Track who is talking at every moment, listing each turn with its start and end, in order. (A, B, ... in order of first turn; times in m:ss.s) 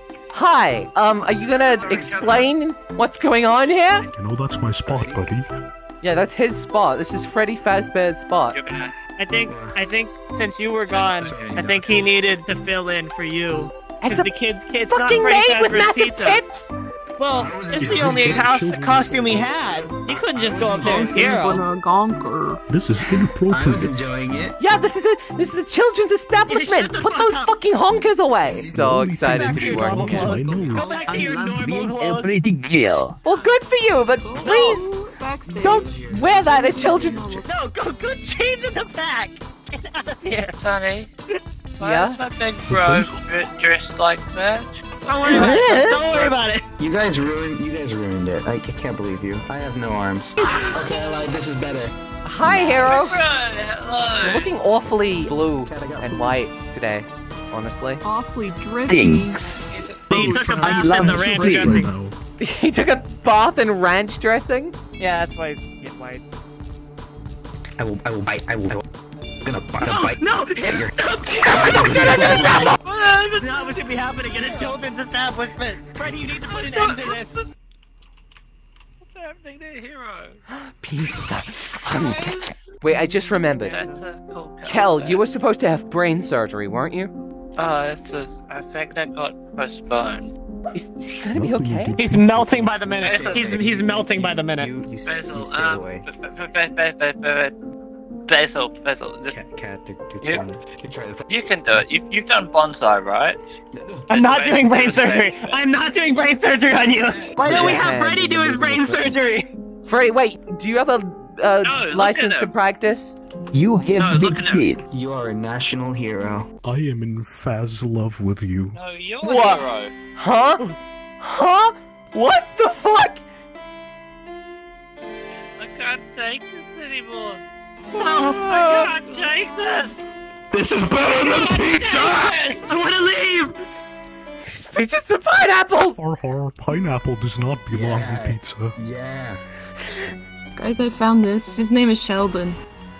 0:00.3-0:04.1 A
0:01.6-0:02.5 B
0:01.9-0:02.3 C
0:04.1-0:05.5 D
0:04.9-0:05.3 C
0:06.0-0:08.6 A
0:08.5-0:08.9 B
0:09.2-0:16.4 E
0:09.4-0:09.8 C
0:11.0-0:12.2 C
0:14.0-0:14.3 A
0:14.9-0:16.7 A
0:17.2-0:21.6 E
0:17.4-0:18.4 C
0:17.5-0:20.0 D
0:20.0-0:21.4 C
0:20.7-0:22.6 F
0:22.7-0:24.0 D
0:23.5-0:24.6 C
0:24.6-0:30.4 A
0:26.5-0:27.5 E
0:28.4-0:28.8 C
0:28.5-0:31.0 D
0:29.3-0:32.3 E
0:30.8-0:33.2 G
0:33.2-0:34.9 A
0:34.2-0:37.5 F
0:35.5-0:37.4 A
0:35.5-0:37.1 C
0:37.5-0:40.6 E
0:40.6-0:41.1 B
0:41.8-0:46.3 B
0:41.8-0:42.2 A
0:42.7-0:43.2 D
0:45.1-0:46.0 A
0:45.3-0:46.6 E
0:46.8-0:51.9 C
0:50.4-0:50.7 E
0:52.2-0:53.3 A
0:52.5-0:54.5 B
0:54.2-0:58.0 A
0:55.2-0:56.4 C
0:58.0-0:59.4 F
0:58.9-0:59.4 G
0:59.7-1:00.1 B
1:00.1-1:02.2 D
1:00.1-1:01.9 E
1:00.2-1:01.8 G
1:02.4-1:04.8 A
1:05.0-1:06.2 E
1:07.8-1:08.8 C
1:09.4-1:12.7 C
1:09.8-1:17.4 E
1:11.0-1:12.8 A
1:12.8-1:13.8 B
1:16.5-1:17.3 B
1:19.0-1:20.4 B
1:20.8-1:23.8 A
1:21.9-1:22.7 B
1:23.7-1:25.3 B
1:24.6-1:27.1 A
1:27.6-1:30.3 B
1:30.7-1:31.9 A
1:31.4-1:33.0 D
1:32.0-1:34.7 E
1:33.0-1:36.1 C
1:33.0-1:33.6 B
1:35.0-1:37.6 B
1:38.3-1:39.4 B
1:39.3-1:41.3 C
1:40.2-1:40.5 B
1:41.3-1:43.5 B
1:43.8-1:44.1 C
1:44.1-1:45.6 B
1:44.1-1:49.5 E
1:47.4-1:49.1 A
1:47.5-1:47.8 C
1:48.7-1:49.0 C
1:49.8-1:53.2 A
1:51.6-1:52.5 B
1:53.5-1:54.8 G
1:54.0-1:54.7 B
1:54.9-1:56.5 C
1:56.6-1:58.8 D
1:58.8-1:59.9 B
1:59.2-1:59.6 A
2:00.2-2:00.6 A
2:01.2-2:03.2 A
2:05.6-2:07.4 B
2:08.0-2:09.1 E
2:08.0-2:10.0 B
2:10.5-2:12.4 C
2:11.3-2:12.6 B
2:11.7-2:13.5 E
2:14.4-2:16.0 A
2:15.9-2:18.7 D
2:17.7-2:19.4 C
2:20.6-2:22.6 F